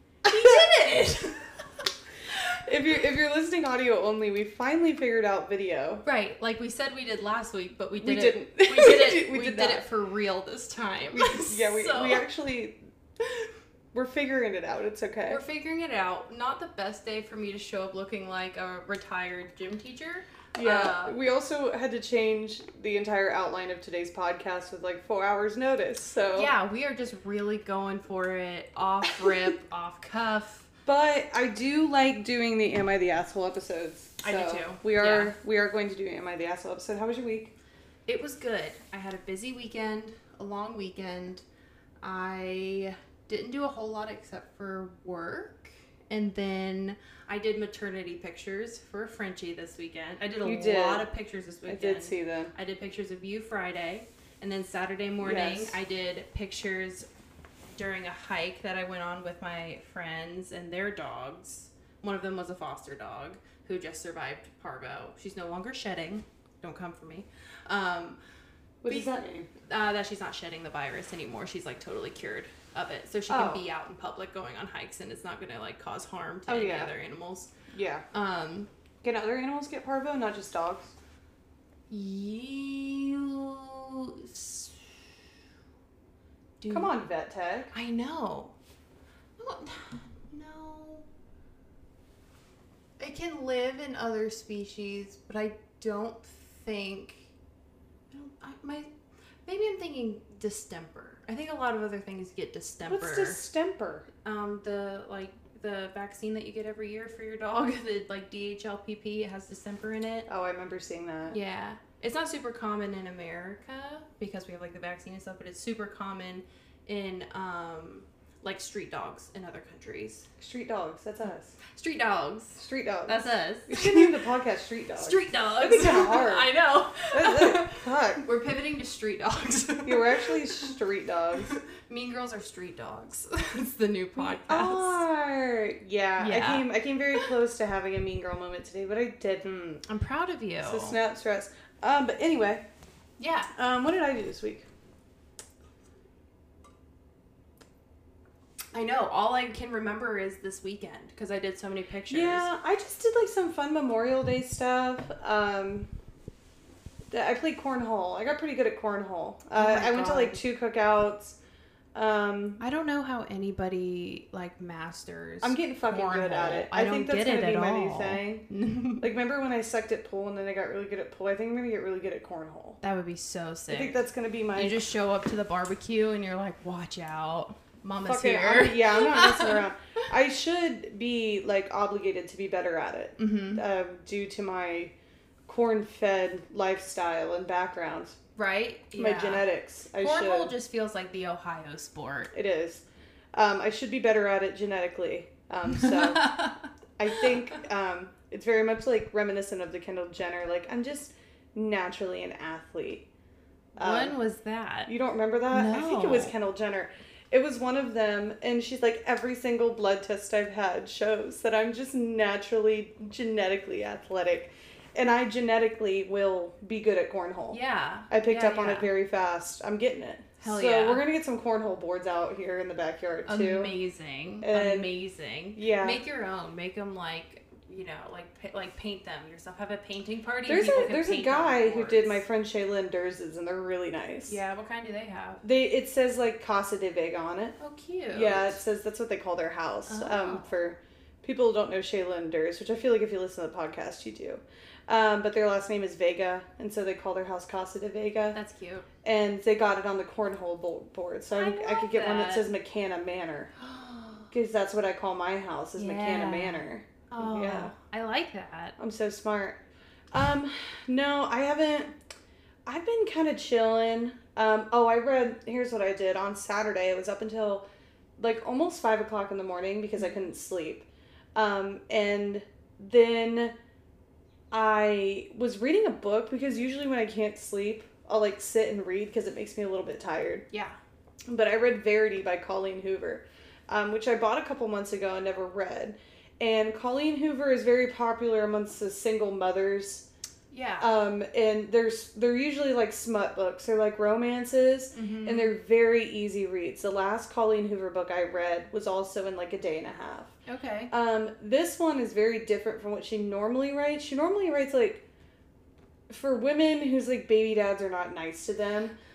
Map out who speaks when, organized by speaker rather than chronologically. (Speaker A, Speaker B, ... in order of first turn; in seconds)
Speaker A: 0.2-1.6, 6.0-12.2, 15.2-21.2, 26.3-30.7, 34.2-35.3, 38.1-41.4, 42.0-57.1, 57.7-68.2, 68.9-77.5, 78.1-78.7, 81.9-84.9, 86.6-86.9, 87.7-88.5, 89.4-91.0, 93.0-97.3, 98.1-98.9, 99.5-103.4, 104.2-110.3, 111.3-120.2, 121.7-124.2, 125.0-130.7, 131.4-135.0, 136.2-137.2, 139.8-141.0, 143.2-143.5, 148.7-152.5, 159.6-160.4, 162.6-169.1, 172.8-174.0, 174.5-179.7, 183.2-183.6, 188.4-192.3, 195.7-197.3, 203.8-204.9, 205.5-206.3, 217.5-218.9, 220.4-221.0, 223.2-232.2, 234.3-235.4, 237.6-238.6, 239.9-240.4, 248.3-248.8, 251.3-252.5, 253.6-254.3, 255.8-258.8, 280.5-280.8, 290.5-290.9, 294.9-295.6, 300.4-300.9
Speaker B: 0.3-0.6, 2.5-6.0, 8.0-9.8, 11.1-12.8, 13.9-15.4, 20.6-26.5, 30.9-37.5, 50.4-51.0, 51.7-52.5, 55.2-55.8, 68.8-69.5, 73.3-73.6, 76.5-76.9, 77.7-78.0, 79.0-80.9, 86.7-87.7, 102.9-104.1, 110.3-111.4, 120.4-121.6, 122.6-126.5, 127.1-128.2, 129.8-131.5, 134.2-139.8, 140.6-142.6, 143.6-144.7, 152.1-155.9, 157.1-161.4, 161.9-162.6, 165.4-168.5, 169.0-172.8, 173.7-174.8, 178.0-184.9, 185.5-188.2, 189.0-190.5, 192.3-192.8, 193.3-196.4, 197.0-203.1, 203.8-204.1, 204.9-223.7, 224.4-224.9, 225.6-226.0, 230.4-234.4, 235.4-237.6, 238.1-248.4, 249.0-253.5, 254.3-257.7, 258.8-259.6, 260.1-261.9, 262.6-267.6, 268.2-273.5, 274.5-280.4, 281.3-290.1, 290.8-300.3, 300.9-305.0, 306.1-308.9